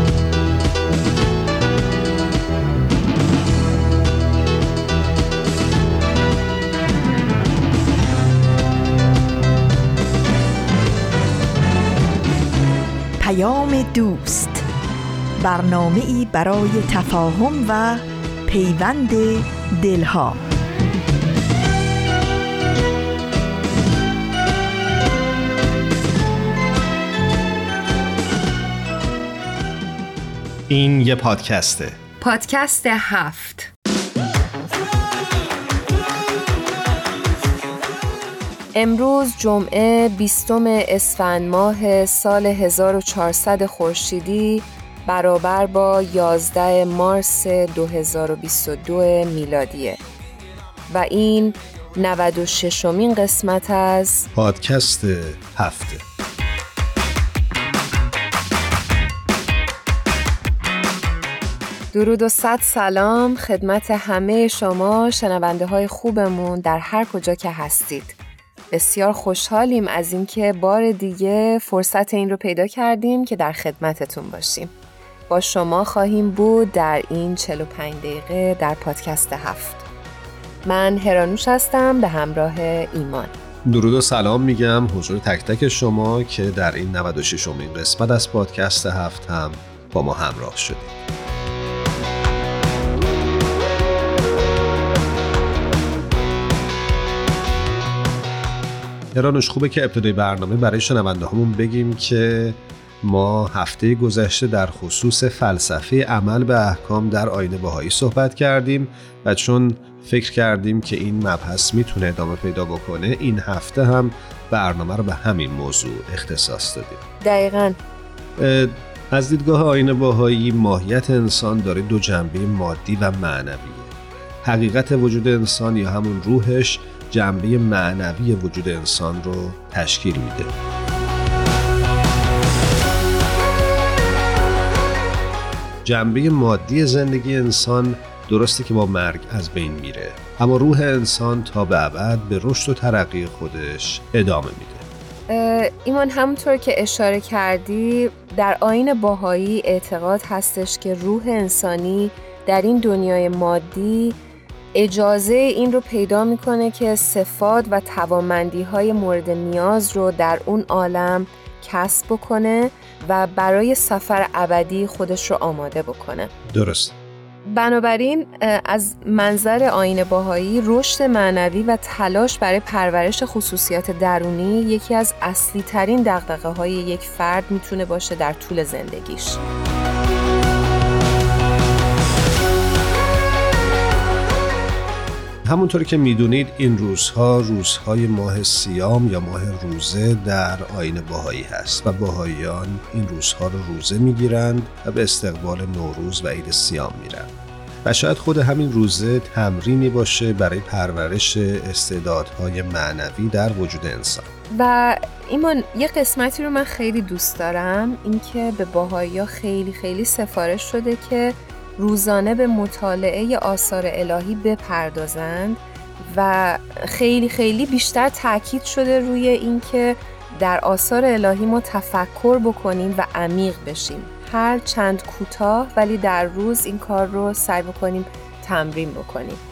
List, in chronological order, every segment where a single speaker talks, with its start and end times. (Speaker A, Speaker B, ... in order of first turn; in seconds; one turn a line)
Speaker A: 13.2-14.6
Speaker A: 15.4-20.4
Speaker B: 30.7-32.0
Speaker C: 32.2-33.7
Speaker C: 38.7-50.0
Speaker C: 50.9-54.3
Speaker B: 54.3-56.0
Speaker C: 61.9-68.2
Speaker C: 68.7-74.7
Speaker C: 75.3-79.9
Speaker C: 80.6-83.3
Speaker B: 83.7-91.0
Speaker B: 99.1-117.0
Speaker C: 117.2-117.8
Speaker B: 118.4-123.9
Speaker B: 124.4-130.5
Speaker B: 135.8-144.8
Speaker C: 145.3-154.2
Speaker C: 154.7-166.3
Speaker B: 166.5-167.0
Speaker C: 167.5-179.4
Speaker B: 185.4-197.3
Speaker B: 197.8-204.3
Speaker C: 204.5-229.4